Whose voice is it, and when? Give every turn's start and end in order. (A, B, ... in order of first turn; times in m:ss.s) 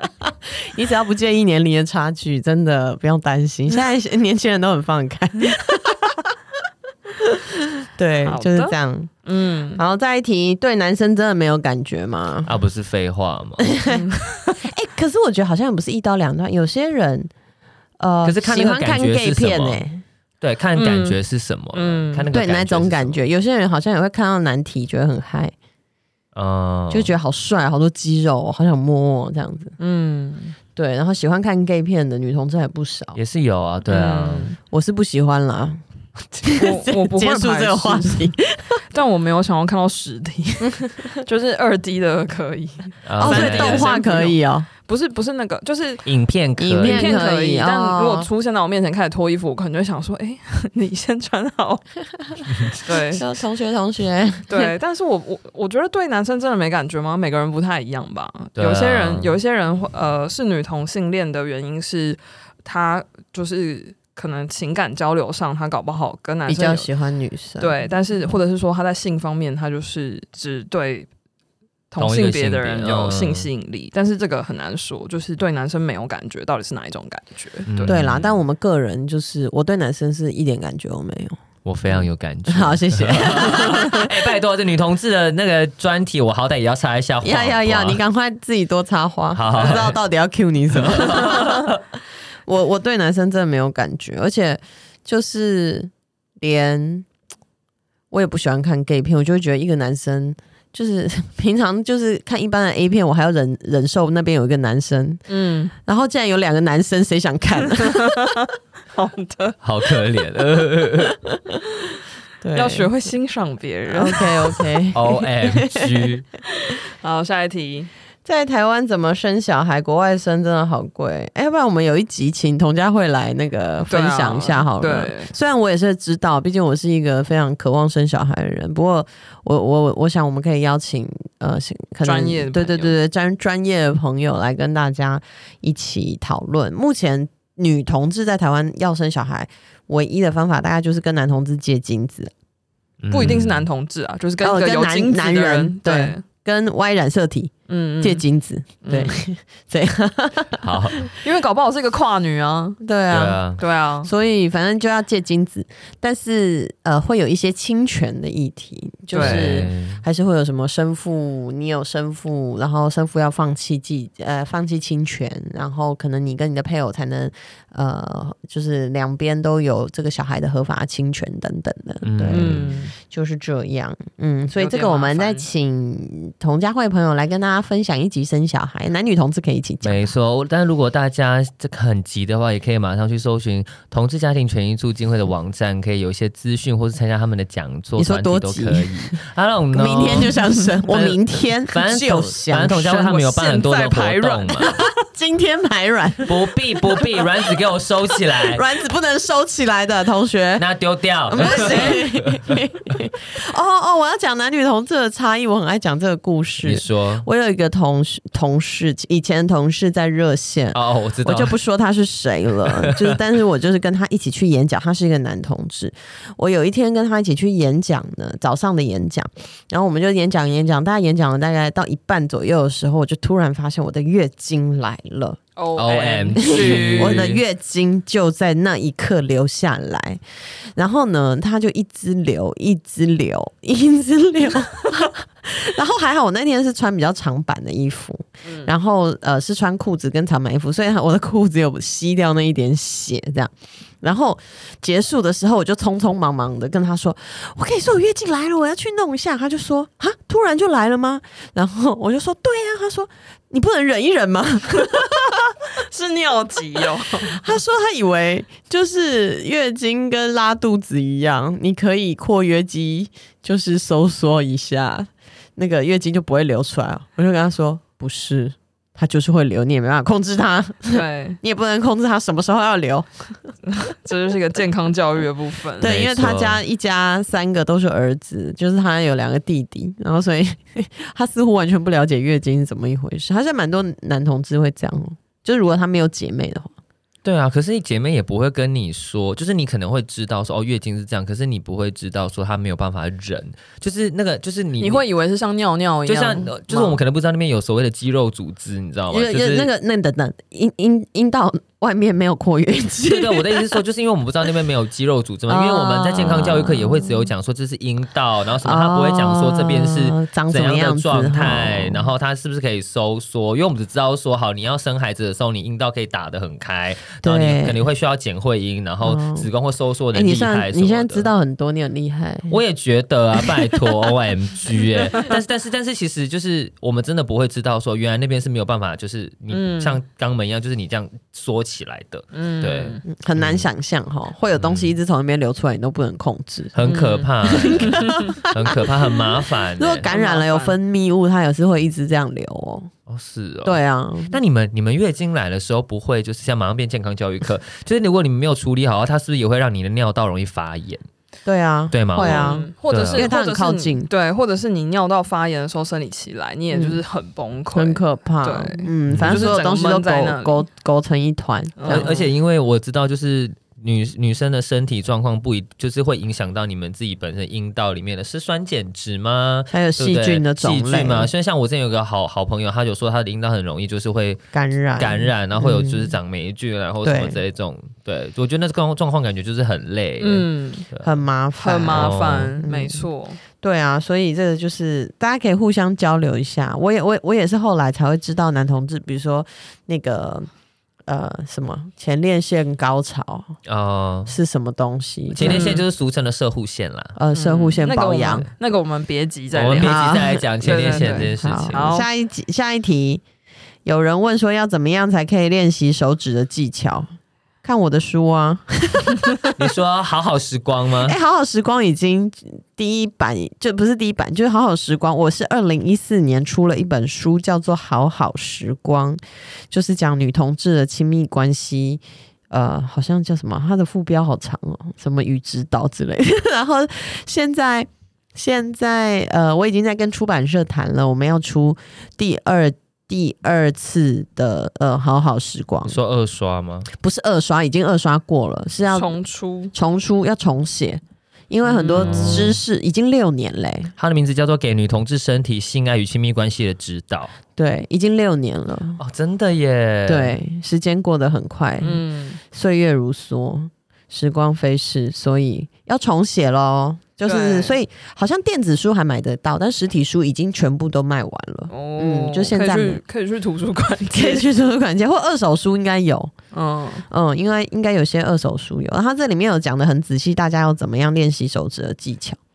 0:00.2-0:06.3 A
0:07.1-0:09.1 A
0:08.2-0:09.8 B
0:09.7-0:12.5 A
0:12.4-0:13.7 C
0:13.6-0:17.3 A
0:13.9-0:14.5 B
0:18.0-0:20.0 A
0:18.2-0:19.8 C
0:20.4-0:23.2 C
0:20.8-0:21.2 B
0:21.7-0:22.2 B
0:22.3-0:25.5 A
0:26.3-0:27.1 C
0:26.9-0:29.8 A
0:29.8-0:30.6 B
0:30.8-0:33.2 A
0:33.1-0:34.5 C
0:33.9-0:34.6 B
0:34.7-0:38.8 A
0:36.5-0:38.3 B
0:38.9-0:46.0 B
0:40.6-0:41.0 A
0:43.0-0:44.0 C
0:43.2-0:44.7 A
0:46.0-0:47.1 C
0:46.6-0:48.3 A
0:46.8-0:51.8 B
0:52.4-0:52.8 C
0:52.8-0:53.2 B
0:53.1-0:54.7 A
0:54.5-1:06.9 B
0:58.6-0:59.4 C
1:06.5-1:07.7 A
1:07.6-1:11.1 B
1:11.9-1:18.0 B
1:12.0-1:13.5 C
1:17.7-1:18.4 C
1:17.8-1:21.4 A
1:21.6-1:28.0 C
1:22.5-1:24.1 A
1:27.2-1:31.7 A
1:29.3-1:30.0 C
1:30.7-1:31.8 C
1:32.4-1:37.0 A
1:38.1-1:45.2 A
1:45.3-1:45.7 B
1:45.8-1:48.4 A
1:47.8-1:49.6 B
1:49.6-1:51.2 C
1:51.3-1:51.7 A
1:52.4-1:52.9 A
1:52.5-1:54.8 B
1:53.9-1:56.1 A
1:54.9-1:56.2 C
1:56.6-1:57.9 B
1:58.2-2:22.3 A
2:03.9-2:05.3 B
2:12.0-2:12.9 B
2:23.0-2:23.7 C
2:23.1-2:26.2 B
2:24.4-2:30.7 A
2:27.7-2:28.2 B
2:28.8-2:29.2 B
2:30.6-2:31.1 C
2:31.2-2:32.8 B
2:32.8-2:33.4 A
2:33.1-2:33.6 C
2:33.6-2:34.1 B
2:34.0-3:00.0 A
2:39.1-2:39.6 B
2:39.2-2:40.0 C
2:52.0-2:52.8 C
2:52.3-2:52.9 B
2:54.6-2:55.5 B
2:59.8-3:14.8 C
3:08.0-3:09.2 A
3:09.7-3:13.1 A
3:13.1-3:14.8 B
3:15.0-3:16.5 A
3:16.2-3:18.6 C
3:18.4-3:20.6 A
3:20.6-3:22.5 C
3:21.3-3:45.4 A
3:21.4-3:22.0 B
3:26.6-3:27.2 C
3:30.7-3:31.5 C
3:32.8-3:33.1 C
3:45.6-3:47.3 B
3:45.8-3:47.4 C
3:46.4-3:50.2 A
3:50.8-4:15.4 A
3:58.4-3:58.7 B
4:15.7-4:17.4 B
4:17.2-4:33.1 A
4:30.9-4:31.4 B
4:33.7-4:35.9 B
4:35.8-4:46.7 A
4:35.8-4:36.6 C
4:47.2-4:55.0 C
4:54.8-4:57.0 B
4:56.0-4:59.7 C
4:59.1-5:03.7 A
5:03.0-5:21.3 C
5:05.5-5:07.3 A
5:08.6-5:12.1 A
5:17.2-5:17.8 A
5:19.0-5:19.5 A
5:20.1-5:22.6 A
5:22.5-5:33.6 C
5:29.5-5:30.0 B
5:32.3-5:33.0 B
5:33.0-5:36.8 A
5:34.5-5:34.9 C
5:36.7-5:40.1 C
5:36.8-5:38.3 B
5:37.5-5:38.9 A
5:39.8-5:42.9 A
5:40.1-5:40.8 B
5:43.1-5:43.8 C
5:43.6-5:44.4 A
5:44.3-5:51.0 C
5:51.4-5:54.1 A
5:51.9-5:53.3 C
5:52.1-6:00.6 B
5:56.7-5:57.0 A
5:57.7-6:02.1 A
5:59.1-5:59.5 C
6:01.8-6:02.3 B
6:01.9-6:14.4 C
6:09.7-6:11.3 A
6:14.5-6:16.1 A
6:15.0-6:21.2 C
6:17.0-6:17.4 A
6:20.2-6:20.8 B
6:21.0-6:23.1 A
6:21.6-6:23.4 B
6:21.9-6:22.6 C
6:23.6-6:30.5 A
6:31.0-6:33.6 A
6:33.6-6:34.3 C
6:34.3-6:35.8 A
6:35.3-6:37.1 C
6:35.4-6:35.8 B
6:37.1-6:38.5 A
6:37.3-6:42.1 B
6:39.5-6:42.0 C
6:39.8-6:43.2 A
6:43.8-6:47.1 A
6:47.6-6:49.5 A
6:49.6-6:51.2 C
6:51.0-7:16.0 A
7:15.8-7:16.9 C
7:16.9-7:19.2 A
7:18.9-7:19.7 B
7:19.7-7:23.9 A
7:21.6-7:22.2 B
7:22.0-7:22.6 C
7:24.0-7:27.3 C
7:27.6-7:29.0 A
7:29.0-7:30.3 C
7:30.1-7:43.0 A
7:31.8-7:32.4 B
7:37.2-7:37.8 B
7:41.7-7:44.5 B
7:44.1-7:46.3 A
7:46.5-7:47.1 B
7:47.1-7:52.4 A